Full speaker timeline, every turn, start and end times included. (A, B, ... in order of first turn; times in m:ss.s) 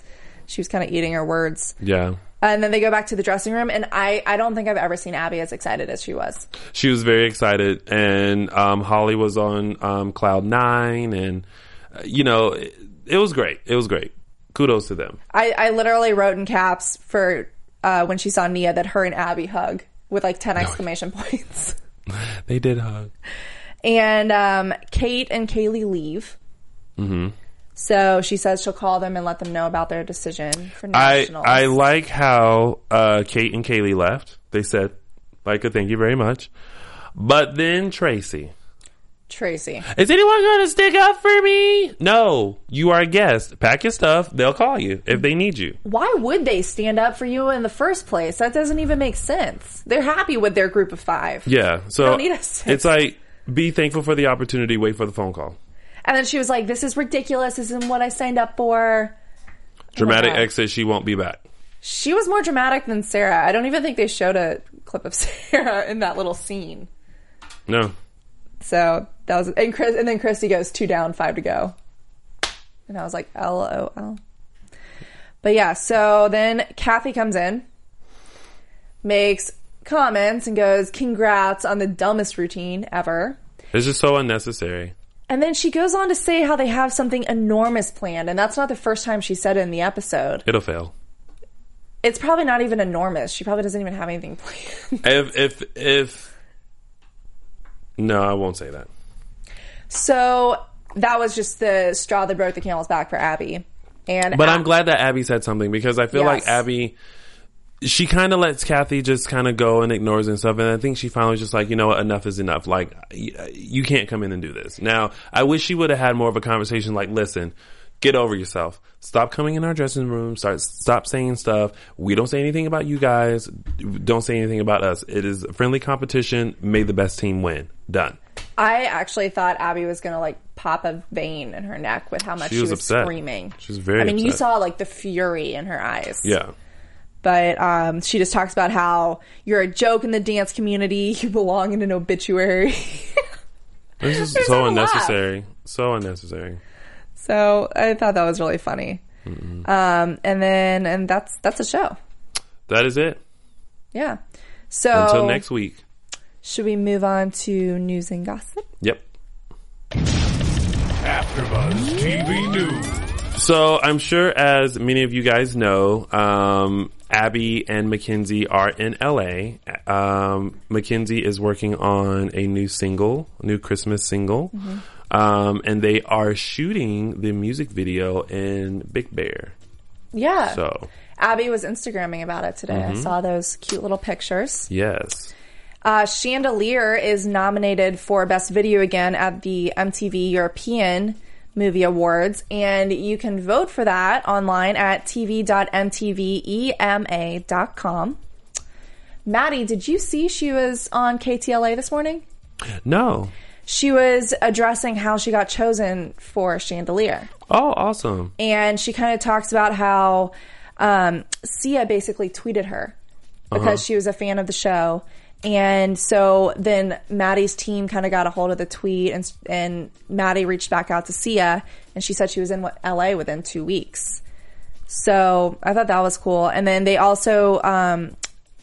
0:00.5-0:01.8 A
0:01.8-0:02.2 B
0:02.4-0:06.5 A
0:06.7-0:15.2 B
0:15.3-0:21.8 A
0:22.1-0:23.1 B
0:23.8-0:26.4 A
0:27.0-0:27.3 B
0:27.8-0:31.7 A
0:30.9-0:36.5 B
0:37.1-0:38.5 B
0:39.3-0:39.9 A
0:39.8-0:45.8 B
0:45.8-0:52.9 A
0:51.4-0:55.6 B
0:56.0-0:59.1 A
0:59.9-1:00.4 A
1:00.0-1:01.4 B
1:01.8-1:06.9 A
1:07.7-1:07.9 B
1:08.6-1:11.7 A
1:12.9-1:14.2 A
1:15.4-1:17.6 A
1:19.0-1:23.4 A
1:23.7-1:24.9 B
1:25.3-1:30.4 A
1:30.4-1:30.9 B
1:32.0-1:35.1 A
1:35.0-1:36.3 B
1:38.0-1:38.9 B
1:39.9-1:44.6 A
1:44.3-1:47.0 B
1:46.1-1:46.6 A
1:47.8-2:08.2 B
2:08.6-2:16.4 A
2:12.4-2:14.4 B
2:16.2-2:16.5 B
2:17.2-2:23.2 A
2:24.0-2:26.6 B
2:24.0-2:25.1 A
2:27.2-2:29.0 A
2:29.2-2:29.6 B
2:29.6-2:32.0 A
2:32.7-2:33.2 B
2:33.9-2:34.2 A
2:34.7-2:35.4 A
2:34.9-2:35.8 B
2:36.4-2:38.7 A
2:41.0-2:43.1 C
2:43.3-2:54.5 B
2:54.5-2:54.8 A
2:55.1-2:59.5 B
3:00.1-3:00.6 A
3:00.5-3:00.9 B
3:01.2-3:04.7 A
3:02.7-3:03.1 B
3:04.7-3:05.3 B
3:05.8-3:18.2 A
3:19.2-3:22.2 A
3:22.8-3:23.3 B
3:23.6-3:27.3 A
3:27.5-3:28.3 B
3:28.4-3:32.9 A
3:33.5-3:33.8 B
3:33.5-3:44.2 A
3:44.9-3:48.2 A